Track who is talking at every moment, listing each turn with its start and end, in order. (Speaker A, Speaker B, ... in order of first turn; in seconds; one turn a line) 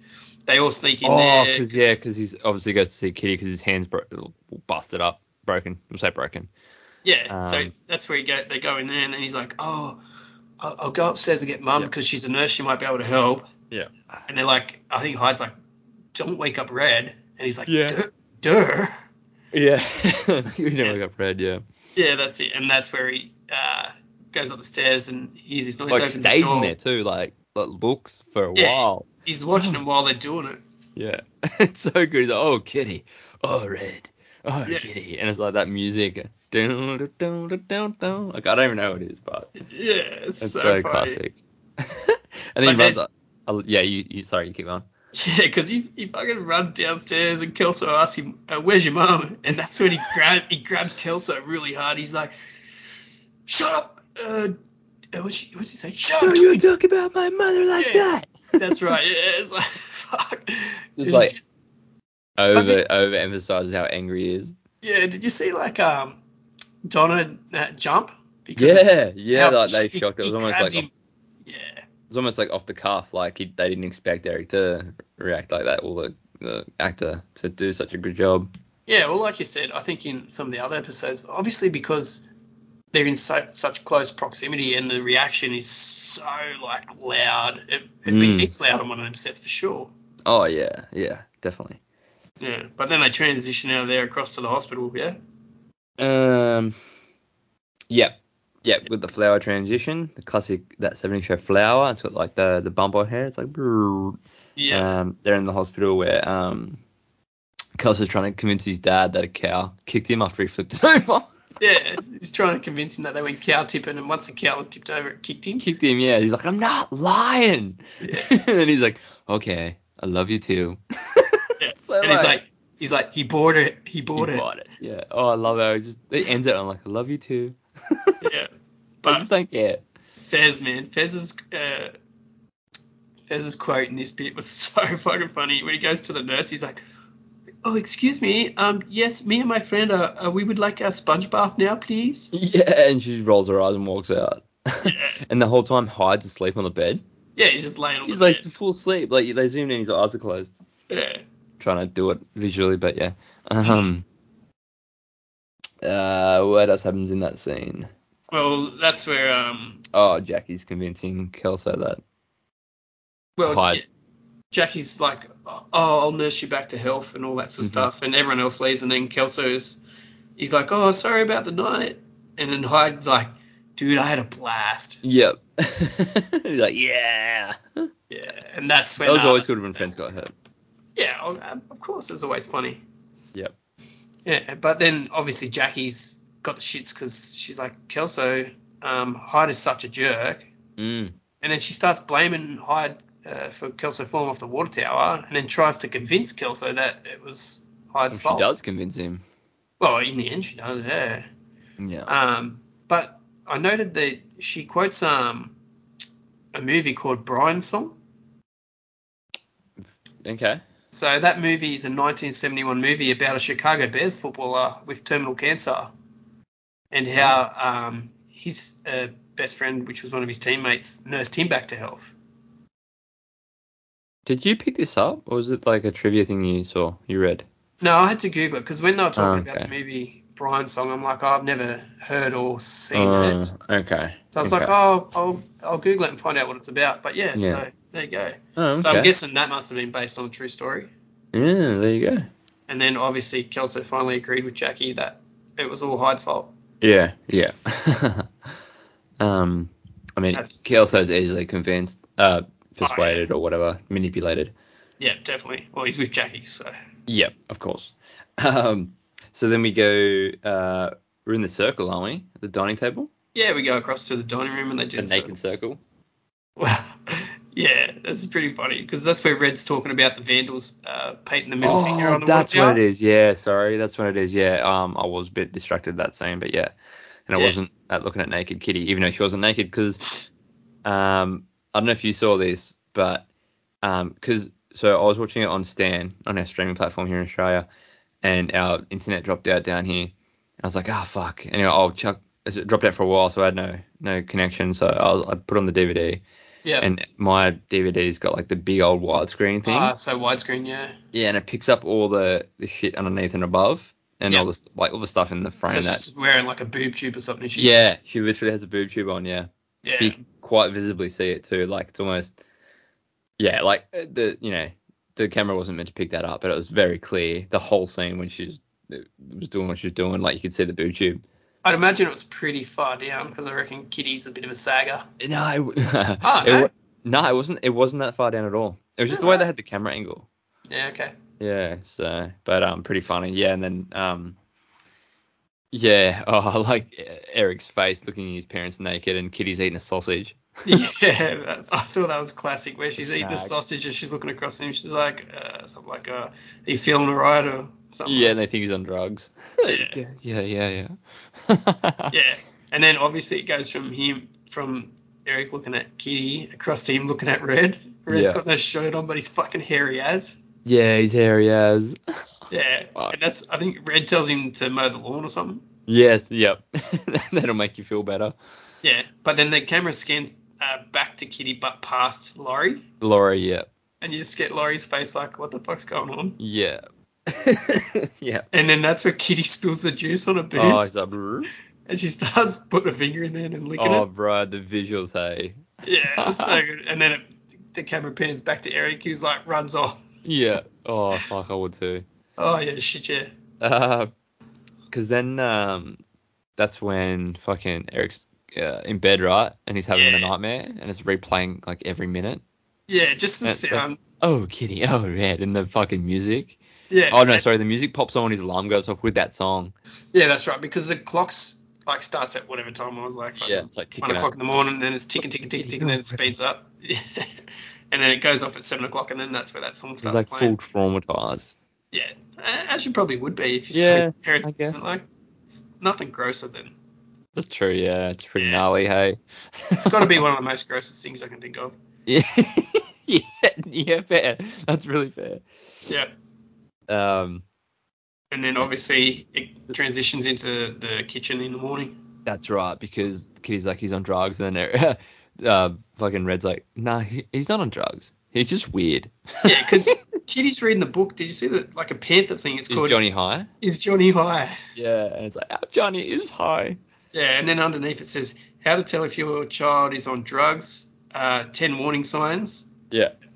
Speaker A: 0.5-2.0
Speaker B: 1.0-6.5
Speaker A: 7.0-10.0
Speaker B: 7.3-7.7
Speaker A: 10.6-13.5
Speaker A: 14.3-15.5
Speaker A: 16.1-18.9
Speaker B: 17.7-18.0
Speaker B: 19.5-21.6
Speaker A: 21.9-26.7
Speaker B: 25.9-29.8
Speaker A: 28.5-30.6
Speaker B: 30.9-39.5
Speaker A: 39.6-41.2
Speaker B: 40.4-44.9
Speaker A: 42.6-43.0
Speaker A: 45.1-52.3
Speaker A: 53.5-54.5
Speaker A: 55.1-56.6
Speaker B: 56.2-58.8
Speaker A: 57.8-61.6
Speaker B: 61.0-61.3
Speaker B: 62.4-64.5
Speaker A: 62.5-62.8
Speaker A: 64.8-66.2
Speaker A: 66.9-70.9
Speaker B: 68.6-70.8
Speaker A: 71.5-71.8
Speaker B: 72.1-78.5
Speaker A: 78.9-82.2
Speaker A: 82.9-89.9
Speaker B: 88.0-88.5
Speaker B: 90.2-91.8
Speaker A: 92.4-95.2
Speaker B: 96.0-96.8
Speaker B: 97.9-104.2
Speaker A: 104.6-104.9
Speaker B: 104.7-106.8
Speaker B: 107.8-111.3
Speaker A: 111.6-115.7
Speaker B: 115.6-122.4
Speaker A: 118.0-118.3
Speaker A: 121.6-124.4
Speaker B: 124.2-128.2
Speaker A: 128.2-128.5
Speaker B: 129.1-129.8
Speaker A: 130.2-131.9
Speaker A: 133.2-136.8
Speaker A: 137.6-142.3
Speaker B: 142.3-147.0
Speaker A: 144.8-145.2
Speaker A: 147.3-148.4
Speaker B: 148.1-150.5
Speaker A: 150.9-151.2
Speaker B: 151.6-154.0
Speaker B: 155.8-157.9
Speaker A: 158.3-159.8
Speaker B: 159.9-162.0
Speaker A: 163.4-163.8
Speaker B: 163.4-163.8
Speaker A: 164.5-169.8
Speaker B: 167.6-167.9
Speaker A: 170.4-175.0
Speaker B: 175.0-177.8
Speaker A: 178.1-179.5
Speaker B: 179.0-180.3
Speaker A: 180.9-182.8
Speaker A: 184.2-190.5
Speaker B: 190.8-191.1
Speaker A: 191.4-198.5
Speaker B: 198.1-199.2
Speaker A: 199.8-201.2
Speaker B: 201.8-202.1
Speaker A: 202.1-205.5
Speaker A: 206.5-207.9
Speaker B: 210.2-210.6
Speaker A: 210.9-215.9
Speaker A: 216.9-222.1
Speaker B: 224.2-227.4
Speaker A: 227.8-233.4
Speaker B: 229.2-229.7
Speaker B: 232.9-234.7
Speaker A: 234.3-240.9
Speaker B: 237.3-237.6
Speaker B: 238.6-239.1
Speaker B: 241.3-242.3
Speaker A: 242.7-246.5
Speaker B: 246.8-248.3
Speaker B: 249.2-254.5
Speaker A: 250.3-250.8
Speaker A: 252.8-253.3
Speaker A: 255.0-256.7
Speaker B: 257.1-263.1
Speaker A: 263.3-265.3
Speaker B: 265.0-265.8
Speaker A: 266.6-272.8
Speaker B: 271.6-276.7
Speaker B: 277.3-280.1
Speaker B: 280.8-283.2
Speaker B: 283.8-287.7
Speaker B: 288.2-296.2
Speaker B: 296.8-299.9
Speaker A: 299.6-301.0
Speaker B: 301.1-306.0
Speaker A: 305.6-307.8
Speaker B: 307.6-312.4
Speaker A: 309.8-310.2
Speaker B: 313.4-321.2
Speaker A: 321.6-325.1
Speaker B: 325.2-330.3
Speaker A: 326.2-326.7
Speaker A: 329.1-329.4
Speaker A: 330.7-331.1
Speaker B: 331.4-334.4
Speaker B: 335.7-340.9
Speaker A: 340.6-348.3
Speaker B: 343.0-343.5
Speaker B: 348.1-352.1
Speaker A: 349.6-350.0
Speaker A: 352.1-360.4
Speaker B: 358.1-358.4
Speaker B: 360.6-362.0
Speaker A: 362.5-365.6
Speaker B: 365.9-368.4
Speaker A: 368.8-372.8
Speaker B: 373.0-373.7
Speaker A: 374.0-376.4
Speaker B: 376.4-378.4
Speaker A: 378.5-381.0
Speaker B: 380.5-381.5
Speaker A: 381.9-384.0
Speaker B: 383.8-385.6
Speaker A: 385.8-390.0
Speaker B: 386.2-386.6
Speaker B: 390.2-392.0
Speaker A: 392.4-393.3
Speaker B: 393.6-394.1
Speaker B: 394.9-396.0
Speaker B: 396.6-402.4
Speaker A: 399.9-400.3
Speaker A: 402.9-404.0
Speaker B: 403.4-406.6
Speaker A: 406.9-407.4
Speaker B: 407.1-409.7
Speaker A: 410.1-417.3
Speaker B: 413.4-414.3
Speaker B: 415.6-416.2
Speaker A: 417.9-420.6
Speaker B: 420.0-421.5
Speaker A: 421.9-425.1
Speaker B: 423.7-424.8
Speaker A: 425.8-426.7
Speaker B: 427.4-430.1
Speaker A: 428.4-428.6
Speaker A: 429.7-431.7
Speaker B: 432.1-435.4
Speaker B: 436.9-437.4
Speaker A: 438.3-442.0
Speaker B: 442.2-449.9
Speaker A: 449.4-453.0
Speaker B: 452.7-453.5
Speaker A: 453.6-454.6
Speaker B: 454.7-456.8
Speaker A: 457.1-462.7